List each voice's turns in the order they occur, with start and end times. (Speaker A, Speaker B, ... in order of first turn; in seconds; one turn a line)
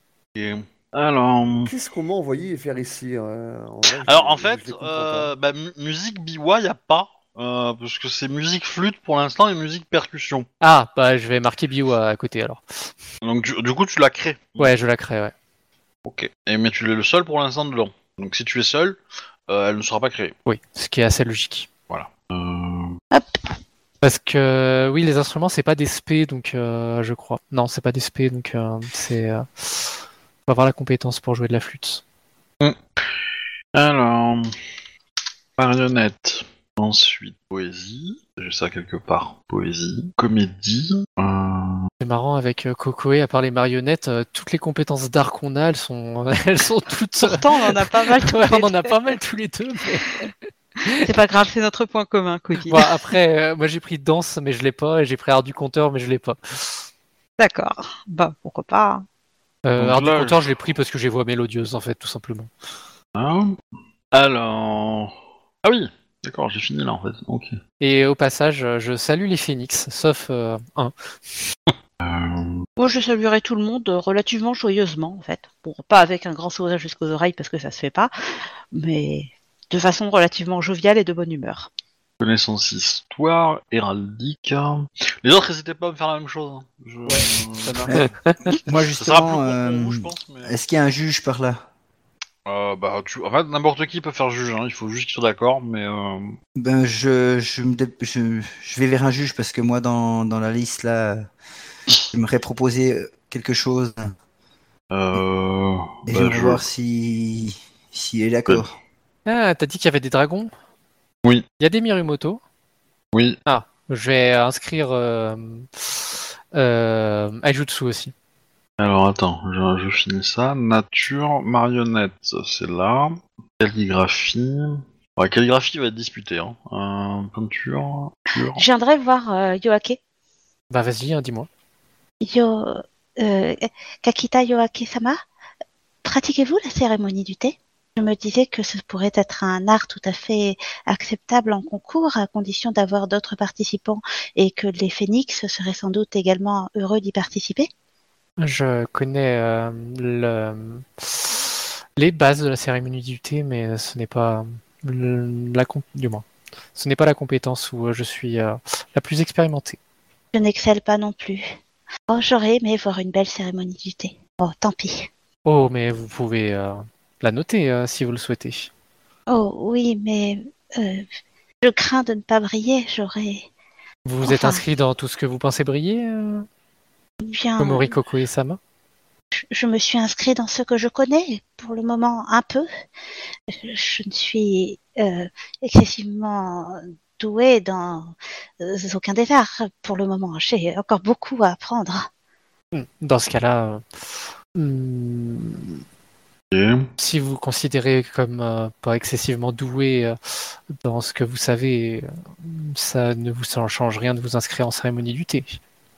Speaker A: 0.3-1.7
Speaker B: 1.6-5.3
Speaker A: 4.0-10.5
Speaker C: 10.6-12.9
Speaker A: 13.2-14.7
Speaker C: 14.6-15.3
Speaker A: 16.0-19.0
Speaker A: 19.5-20.3
Speaker C: 20.4-21.7
Speaker A: 21.9-23.0
Speaker D: 23.1-23.4
Speaker C: 24.0-29.9
Speaker C: 30.5-32.0
Speaker A: 33.7-34.5
Speaker A: 35.6-41.9
Speaker C: 42.0-50.3
Speaker D: 47.2-48.9
Speaker D: 51.0-53.0
Speaker C: 52.6-56.8
Speaker D: 57.4-59.0
Speaker C: 59.6-62.5
Speaker A: 59.8-60.4
Speaker A: 63.1-63.6
Speaker A: 64.1-65.1
Speaker A: 65.6-67.5
Speaker C: 67.8-70.9
Speaker A: 72.0-72.7
Speaker D: 72.8-78.1
Speaker D: 78.7-81.7
Speaker A: 82.2-88.0
Speaker B: 87.1-87.9
Speaker E: 87.9-91.6
Speaker A: 89.0-90.5
Speaker A: 92.5-96.4
Speaker E: 96.5-101.3
Speaker E: 102.1-104.1
Speaker A: 104.9-106.6
Speaker E: 106.1-108.8
Speaker C: 109.2-110.5
Speaker C: 111.6-112.4
Speaker C: 113.5-118.1
Speaker A: 118.8-128.6
Speaker D: 128.5-130.0
Speaker C: 130.7-131.5
Speaker D: 132.2-135.2
Speaker D: 136.0-147.7
Speaker C: 148.4-151.4
Speaker C: 152.0-159.8
Speaker D: 160.3-161.5
Speaker D: 162.1-165.1
Speaker C: 165.4-168.7
Speaker D: 169.3-171.1
Speaker D: 171.6-173.5
Speaker C: 174.0-176.4
Speaker D: 174.2-174.6
Speaker D: 177.2-177.9
Speaker C: 177.6-178.6
Speaker D: 179.4-182.7
Speaker D: 183.5-192.1
Speaker C: 192.7-193.8
Speaker C: 194.6-195.8
Speaker A: 196.5-196.9
Speaker C: 197.0-205.6